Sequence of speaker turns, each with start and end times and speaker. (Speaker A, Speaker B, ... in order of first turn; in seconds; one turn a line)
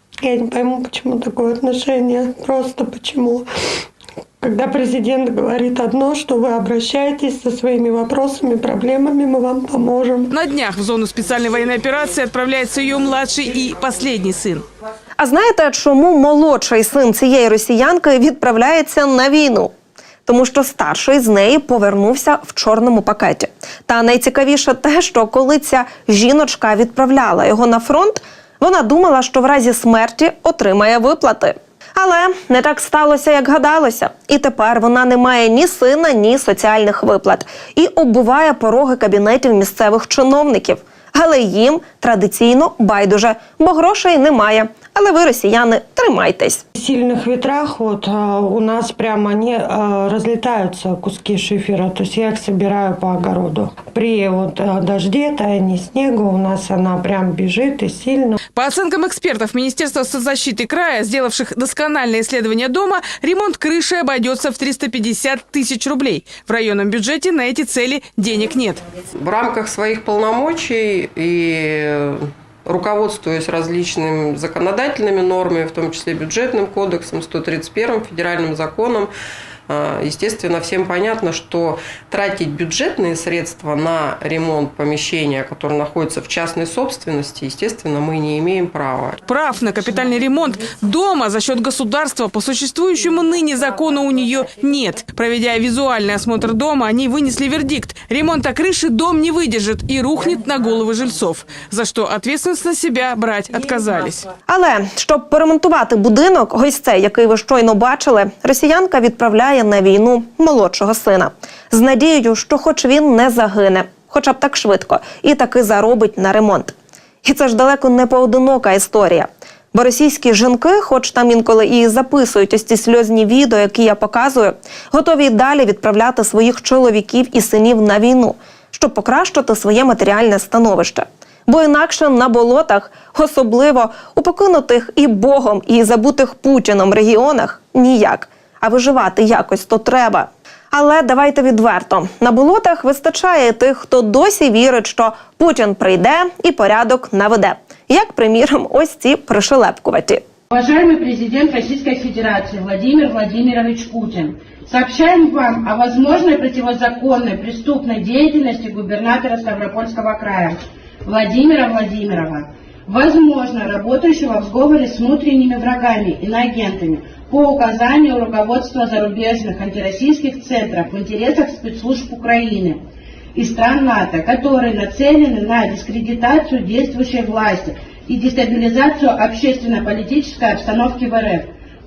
Speaker A: 0.2-3.5
Speaker A: 4.4-10.3
Speaker B: 10.3-14.7
Speaker C: 15.2-19.7
Speaker C: 20.3-46.6
Speaker A: 46.8-58.4
Speaker B: 58.5-68.8
Speaker D: 69.2-79.1
Speaker D: 79.7-89.2
Speaker B: 89.3-104.3
Speaker C: 104.5-150.2
Speaker E: 150.5-172.8
Speaker E: 173.3-181.5